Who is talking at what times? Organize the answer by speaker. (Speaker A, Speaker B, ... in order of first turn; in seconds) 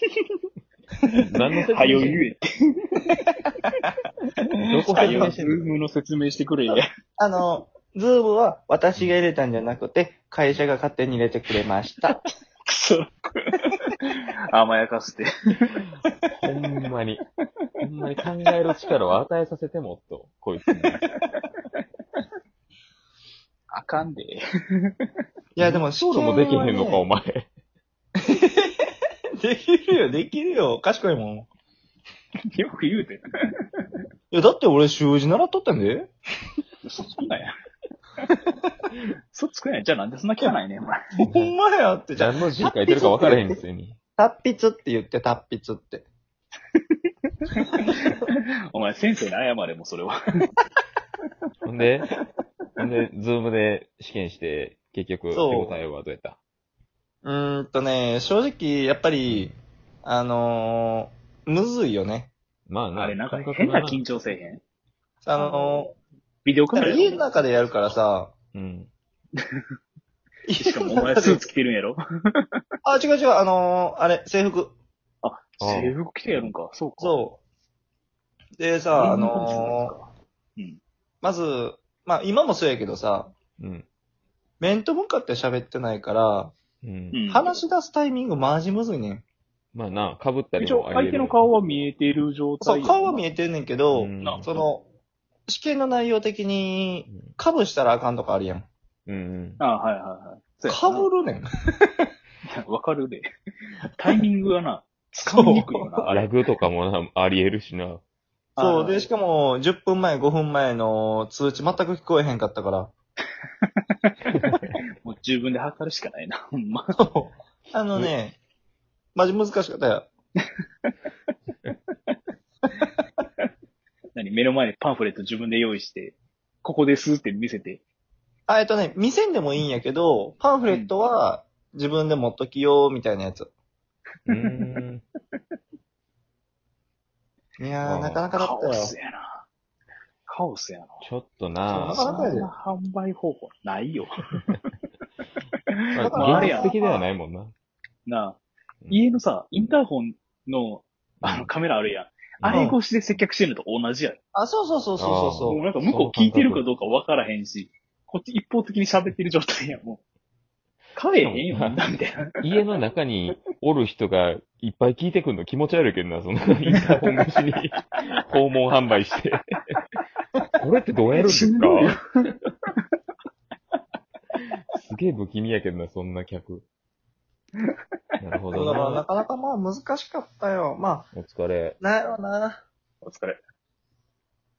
Speaker A: 1.1-3.7, 4.7-6.8, 12.1-15.8, 20.9-21.4, 23.7-24.4, 32.5-33.2, 36.8-37.5, 39.3-41.0, 47.6-50.1, 62.9-64.6, 65.3-65.8, 66.4-67.4, 70.6-72.0, 75.2-77.2, 78.9-80.8, 87.1-87.5, 90.6-93.2, 99.6-101.1, 102.5-103.2, 104.0-106.3, 108.6-109.1, 115.0-116.9, 124.1-127.8, 138.3-139.4, 140.3-141.1, 141.9-144.6, 146.0-146.7, 148.1-148.4, 148.9-154.2, 155.5-160.0, 160.9-162.3, 171.1-172.2, 183.0-183.4
Speaker B: 1.2-2.2, 4.7-5.7, 16.3-17.2, 17.8-21.0, 25.6-27.5, 41.2-41.5, 42.1-44.0, 51.6-52.1, 52.8-56.4, 59.3-59.5, 62.7-64.0, 68.5-68.9, 75.6-75.9, 83.6-83.8, 86.8-87.2, 89.7-91.5, 93.9-94.6, 97.1-97.3, 99.1-99.6, 106.1-108.0, 114.3-114.8, 134.3-135.0, 137.8-138.3, 141.0-142.1, 145.9-147.5, 151.2-151.5, 152.4-152.8, 155.0-156.6, 161.2-161.8, 162.4-169.7, 170.6-171.9, 174.7-176.6, 178.2-179.0, 181.1-181.8
Speaker C: 1.8-2.1, 4.9-5.3, 7.2-12.1, 25.6-27.1, 28.2-28.9, 29.4-31.5, 34.3-36.1, 41.2-43.6, 44.2-46.1, 55.3-55.8, 57.2-62.3, 65.2-65.9, 66.8-68.3, 70.5-71.4, 72.8-74.7, 77.0-77.4, 78.6-79.9, 81.2-83.3, 84.6-86.5, 87.3-89.2, 92.6-94.8, 95.5-98.7, 100.7-101.5, 105.3-106.0, 108.6-112.9, 117.0-118.4, 119.2-120.1, 128.5-133.5, 137.6-138.9, 141.7-142.5, 146.0-147.1, 152.5-152.8, 154.3-155.6, 178.5-181.1, 181.8-182.6